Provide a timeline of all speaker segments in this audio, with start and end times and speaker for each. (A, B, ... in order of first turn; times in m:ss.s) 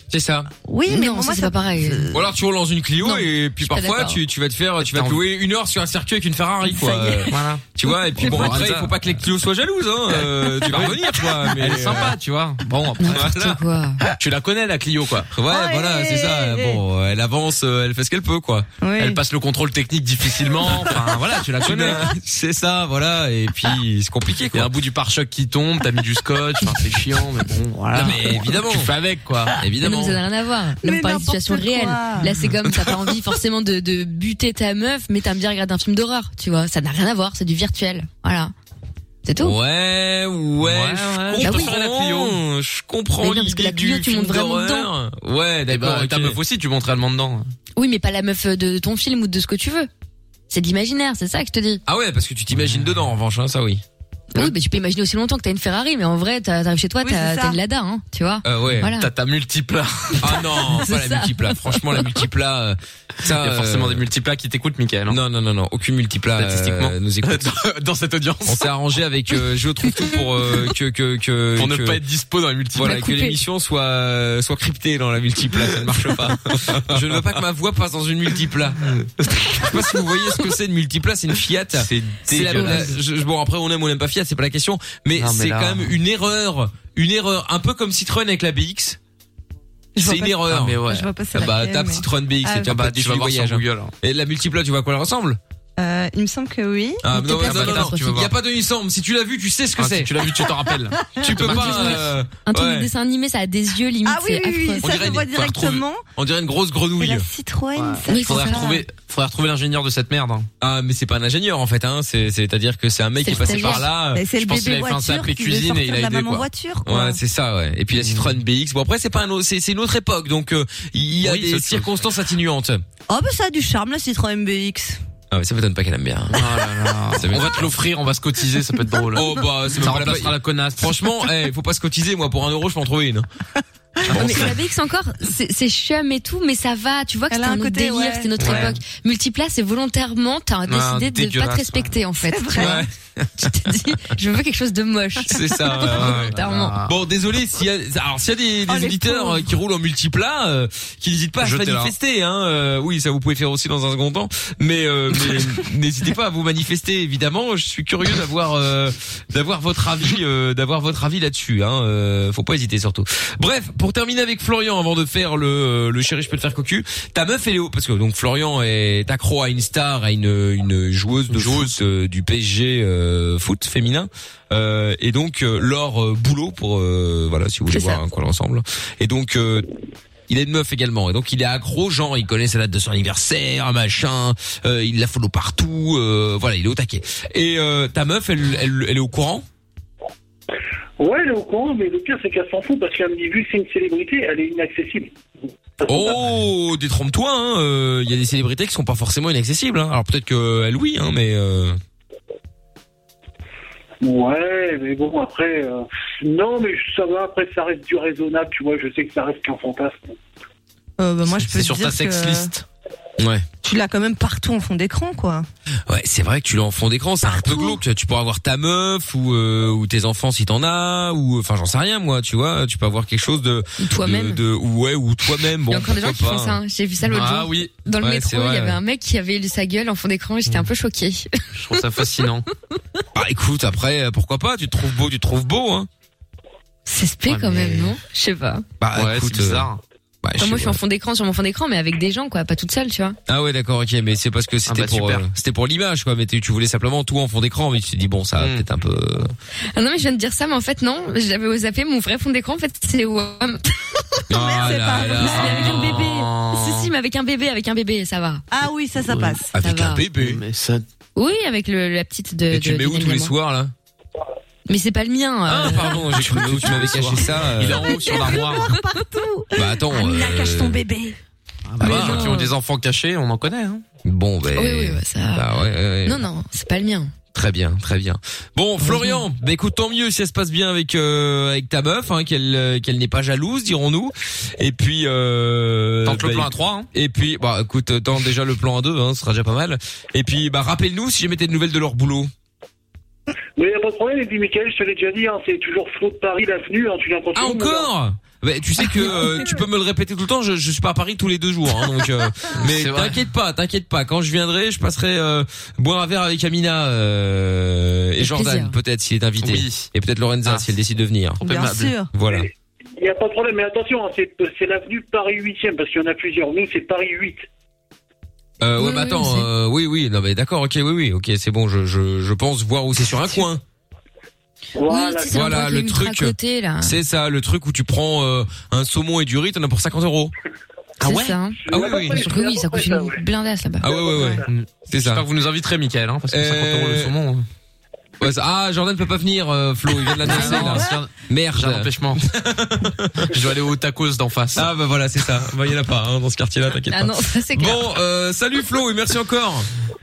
0:00.1-0:00.5 A
0:00.6-0:02.3 B
0:00.9-0:02.0 C
0:02.1-0:12.2 A
0:03.0-0:04.2 C
0:04.8-0:05.2 D
0:06.9-0:07.2 B
0:07.3-0:07.6 D
0:08.2-0:09.0 D
0:10.4-0:13.3 D
0:13.0-0:14.0 C
0:13.1-0:13.6 A
0:14.1-0:15.3 D
0:15.3-0:18.7 A
0:15.5-0:16.8 B
0:18.8-0:19.2 B
0:19.0-0:22.1 D
0:21.6-0:24.7 A
0:24.5-0:29.5 D
0:27.9-0:28.9 A
0:29.6-0:30.2 A
0:29.8-0:38.5 C
0:30.8-0:32.3 B
0:39.2-0:39.6 C
0:39.4-0:46.4 A
0:40.6-0:42.4 D
0:41.4-0:41.7 C
0:43.2-0:44.9 C
0:45.7-0:47.5 D
0:47.8-0:49.9 C
0:50.5-0:51.8 C
0:51.8-0:53.8 A
0:54.3-0:59.1 C
0:57.0-0:57.6 B
0:58.4-0:58.9 A
0:59.0-1:00.4 D
1:00.2-1:04.0 A
1:00.6-1:02.1 C
1:03.2-1:05.2 D
1:05.1-1:07.6 A
1:06.4-1:08.7 D
1:08.4-1:12.0 A
1:11.6-1:13.0 D
1:12.7-1:18.9 A
1:12.8-1:13.4 C
1:16.5-1:16.9 D
1:19.0-1:19.7 D
1:19.4-1:29.0 A
1:21.7-1:23.0 D
1:25.2-1:26.0 D
1:30.0-1:30.8 A
1:30.0-1:32.7 B
1:30.5-1:31.1 D
1:31.3-1:35.4 A
1:32.6-1:33.9 D
1:35.8-1:37.0 B
1:37.0-1:40.2 A
1:37.1-1:38.1 C
1:37.4-1:38.3 D
1:39.8-1:42.1 D
1:41.0-1:41.4 B
1:41.2-1:42.9 A
1:41.5-1:41.9 C
1:42.4-1:44.8 C
1:44.0-1:46.0 B
1:44.8-1:47.3 A
1:47.0-1:48.8 B
1:47.8-1:50.5 D
1:48.1-1:48.6 C
1:50.6-1:54.2 A
1:53.2-1:53.9 C
1:53.6-1:57.2 B
1:54.4-1:56.5 D
1:56.8-2:02.8 A
1:58.0-1:58.4 D
2:01.2-2:01.9 D
2:03.1-2:05.0 B
2:05.3-2:06.5 A
2:06.3-2:11.0 D
2:07.1-2:07.7 A
2:09.1-2:13.3 A
2:14.0-2:14.6 A
2:14.1-2:22.8 C
2:17.3-2:18.7 B
2:18.4-2:18.7 D
2:20.7-2:22.0 D
2:22.2-2:22.8 B
2:22.6-2:23.7 A
2:23.4-2:26.7 C
2:25.2-2:59.7 A
2:25.9-2:26.9 D
2:28.7-2:29.5 B
2:31.4-2:31.9 D
2:51.3-2:51.7 D
2:57.7-2:58.0 C
3:00.3-3:09.4 A
3:11.0-3:15.2 E
3:15.8-3:21.8 A
3:24.0-3:30.2 E
3:31.0-3:32.5 B
3:31.2-3:32.6 D
3:33.2-3:33.4 A
3:33.6-3:35.5 B
3:35.9-3:46.6 A
3:37.2-3:37.8 B
3:43.8-3:44.4 C
3:45.6-3:51.8 C
3:47.0-3:47.7 D
3:48.0-3:48.8 A
3:51.6-3:52.5 D
3:53.1-3:55.9 A
3:56.9-3:58.6 C
3:57.3-3:58.0 D
3:58.8-3:59.7 A
3:58.9-3:59.8 D
4:00.2-4:00.8 A
4:00.4-4:03.2 C
4:03.3-4:09.3 A
4:04.6-4:05.3 D
4:08.4-4:08.6 D
4:09.7-4:13.6 C
4:14.3-4:16.1 A
4:14.3-4:15.7 B
4:14.9-4:18.4 C
4:15.3-4:16.9 D
4:18.5-4:19.5 B
4:19.1-4:19.4 D
4:19.5-4:20.4 A
4:19.6-4:20.0 C
4:20.2-4:20.8 D
4:21.2-4:23.3 C
4:22.5-4:23.7 A
4:24.7-4:26.1 C
4:25.5-4:28.0 A
4:26.1-4:28.8 D
4:27.8-4:31.2 B
4:29.5-4:30.8 A
4:31.7-4:33.8 D
4:31.8-4:32.4 A
4:31.8-4:32.5 C
4:34.0-4:36.2 A
4:34.6-4:35.4 C
4:36.0-4:37.1 C
4:37.3-4:52.3 A
4:38.8-4:39.2 C
4:46.0-4:46.9 D
4:53.6-4:57.9 E
4:57.3-5:11.4 A
5:02.6-5:03.2 D
5:08.2-5:08.7 C
5:09.4-5:09.9 D
5:10.4-5:10.7 D
5:11.4-5:11.9 D
5:11.4-5:12.1 B
5:12.1-5:12.5 A
5:12.2-5:17.5 E
5:18.6-5:23.6 A
5:18.8-5:19.5 C
5:24.8-5:25.4 E
5:24.8-5:26.9 C
5:25.3-5:30.3 A
5:31.0-5:33.9 C
5:31.0-5:31.4 D
5:31.6-5:33.2 E
5:31.7-5:32.2 A
5:33.8-5:34.4 E
5:33.8-5:35.2 A
5:34.4-5:37.4 D
5:36.3-5:37.1 A
5:38.2-5:43.3 A
5:40.2-5:42.2 D
5:43.3-5:44.6 D
5:44.5-5:49.7 A
5:46.9-5:47.9 C